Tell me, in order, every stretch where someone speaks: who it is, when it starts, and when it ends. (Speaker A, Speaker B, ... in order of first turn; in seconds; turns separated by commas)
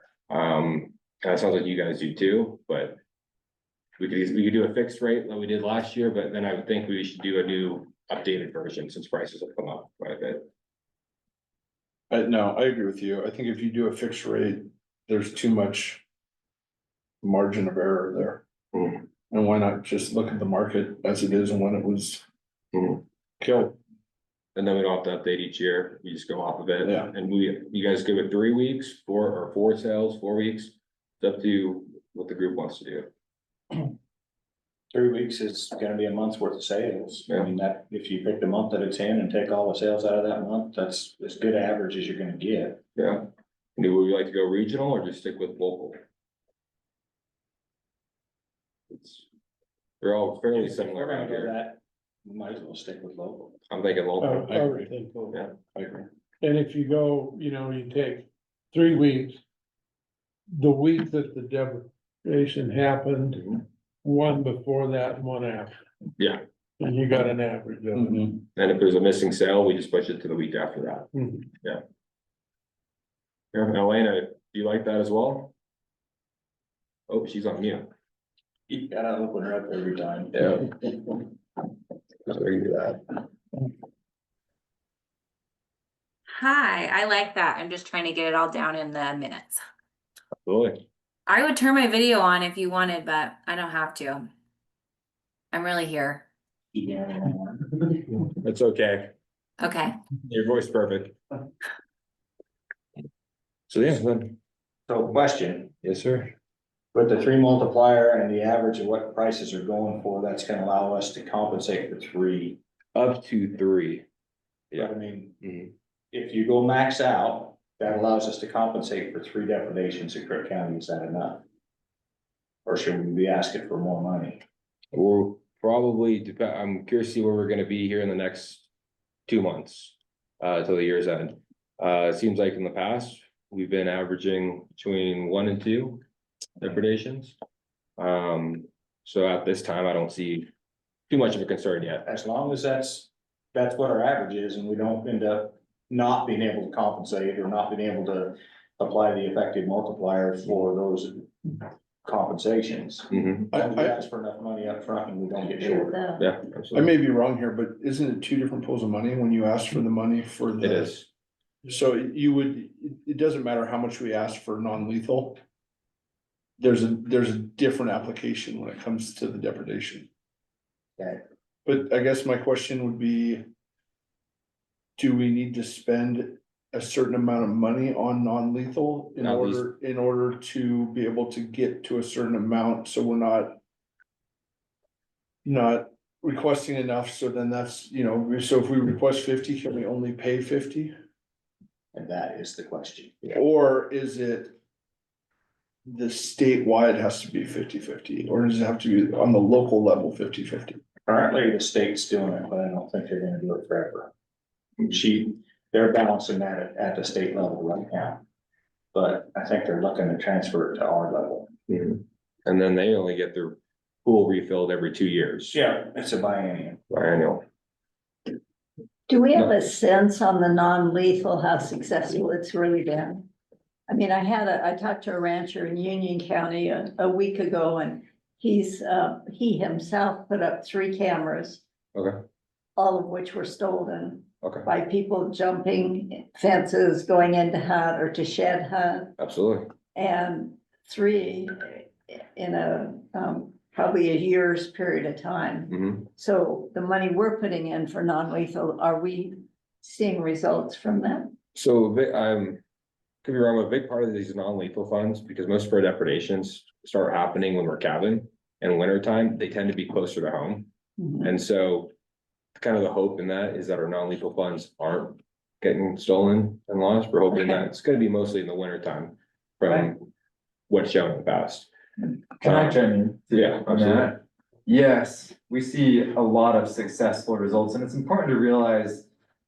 Speaker A: 0.3-3.0, Speaker A: 4.0-10.4, Speaker B: 12.1-16.0, Speaker B: 17.2-18.4, Speaker A: 18.7-19.1, Speaker B: 19.3-22.2, Speaker A: 22.7-23.0, Speaker B: 23.4-23.8, Speaker A: 24.6-33.1, Speaker B: 26.8-27.1, Speaker C: 34.9-42.8, Speaker A: 43.0-46.0, Speaker A: 48.9-49.2, Speaker A: 50.0-51.5, Speaker C: 50.5-53.5, Speaker A: 53.7-54.7, Speaker D: 54.2-55.4, Speaker B: 54.5-54.9, Speaker A: 55.3-55.5, Speaker B: 55.7-56.1, Speaker D: 56.4-59.4, Speaker D: 60.5-65.7, Speaker A: 66.2-66.4, Speaker D: 66.8-68.3, Speaker A: 68.5-71.1, Speaker D: 71.1-71.4, Speaker A: 73.5-75.5, Speaker A: 77.1-77.9, Speaker C: 78.7-80.4, Speaker A: 80.3-81.0, Speaker A: 82.3-83.0, Speaker E: 86.3-89.6, Speaker A: 90.5-90.8, Speaker E: 91.3-94.3, Speaker E: 95.5-96.2, Speaker C: 96.7-97.9, Speaker A: 98.2-99.2, Speaker E: 99.6-100.0, Speaker A: 100.2-101.2, Speaker A: 103.7-104.4, Speaker C: 104.9-105.7, Speaker A: 105.8-106.3, Speaker C: 106.9-112.6, Speaker A: 113.0-114.1, Speaker A: 114.7-115.7, Speaker C: 114.8-115.4, Speaker C: 116.1-121.4, Speaker C: 122.7-124.4, Speaker A: 124.9-128.7, Speaker A: 129.3-136.0, Speaker A: 136.6-137.4, Speaker A: 138.0-140.5, Speaker A: 141.1-142.0, Speaker C: 142.1-156.0, Speaker A: 153.1-153.5, Speaker B: 153.5-154.0, Speaker F: 155.6-156.2, Speaker A: 156.2-156.9, Speaker B: 156.7-161.0, Speaker A: 160.6-161.1, Speaker B: 161.7-165.4, Speaker B: 166.6-170.1, Speaker B: 171.7-173.4, Speaker B: 175.0-183.6, Speaker A: 179.2-179.6, Speaker B: 185.4-190.9, Speaker C: 191.9-193.3, Speaker B: 193.3-194.6, Speaker B: 195.9-200.8, Speaker C: 201.1-204.1, Speaker C: 204.8-208.2, Speaker C: 208.9-211.5, Speaker A: 211.7-215.6, Speaker C: 215.5-216.8, Speaker A: 216.9-217.4, Speaker F: 219.1-223.3, Speaker F: 223.9-231.6, Speaker F: 232.8-239.1, Speaker A: 234.4-234.7, Speaker A: 239.2-239.7, Speaker F: 239.9-251.4, Speaker A: 245.7-246.1, Speaker A: 251.6-252.6, Speaker A: 253.2-260.7, Speaker F: 261.0-261.3, Speaker A: 261.2-261.9, Speaker A: 262.6-270.0, Speaker A: 270.7-271.7, Speaker G: 272.4-279.1, Speaker A: 272.4-272.8, Speaker A: 273.3-274.2